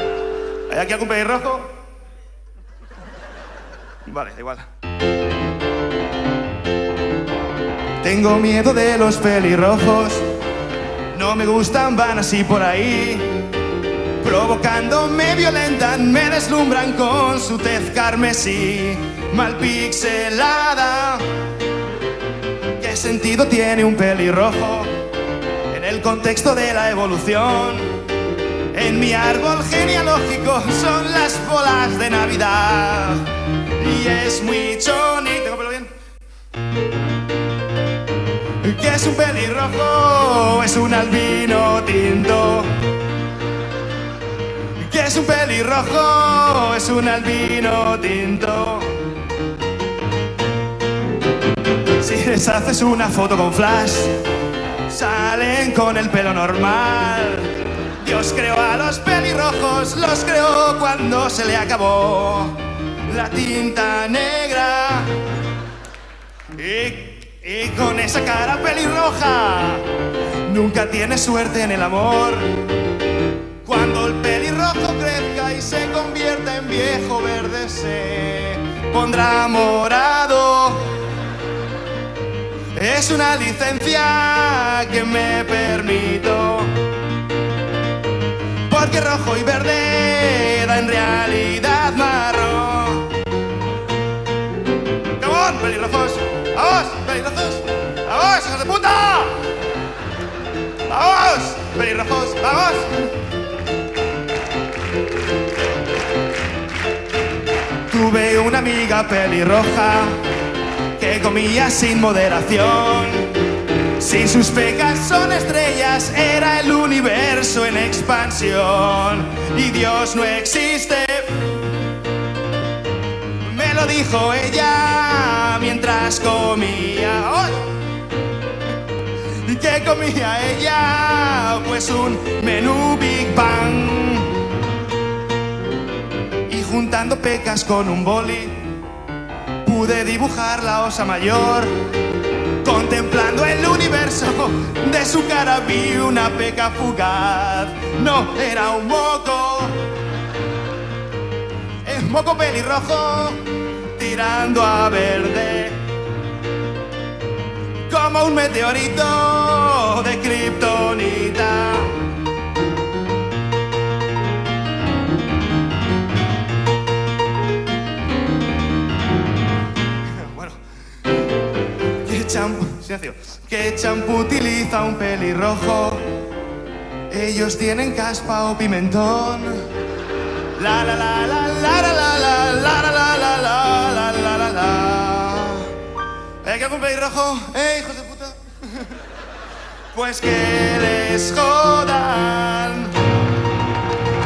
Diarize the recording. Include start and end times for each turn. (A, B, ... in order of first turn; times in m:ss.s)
0:00.7-0:01.8 A
0:04.1-0:04.7 A
0:08.0-0:10.2 A
0:11.1-0:13.4 A
0:14.2-0:21.2 A
0:22.8-0:24.9 A
0:25.7-0:28.0 A
0:28.7-0:33.3 A
0:33.8-0:35.9 A
0:38.6-0:42.7 A
0:44.8-0:48.9 A
0:52.0-0:54.2 A
0:54.9-0:57.5 A
0:58.0-1:05.1 A
1:06.6-1:09.9 A
1:10.5-1:12.5 A
1:13.6-1:20.9 A
1:22.7-1:26.8 A
1:28.7-1:33.1 A
1:35.2-1:39.4 A
1:40.9-1:42.9 A
1:47.9-1:50.2 A
1:51.0-1:53.3 A
1:54.0-2:01.3 A
2:03.4-2:07.7 A
2:09.4-2:14.4 A
2:16.5-2:18.6 A
2:19.6-2:21.7 A
2:22.6-2:29.8 A
2:31.8-2:35.8 A
2:37.9-2:41.9 A
2:50.1-2:50.6 A
2:52.0-2:56.0 A
2:57.1-2:59.6 A
3:00.6-3:05.7 A
3:06.4-3:08.9 A
3:09.9-3:12.9 A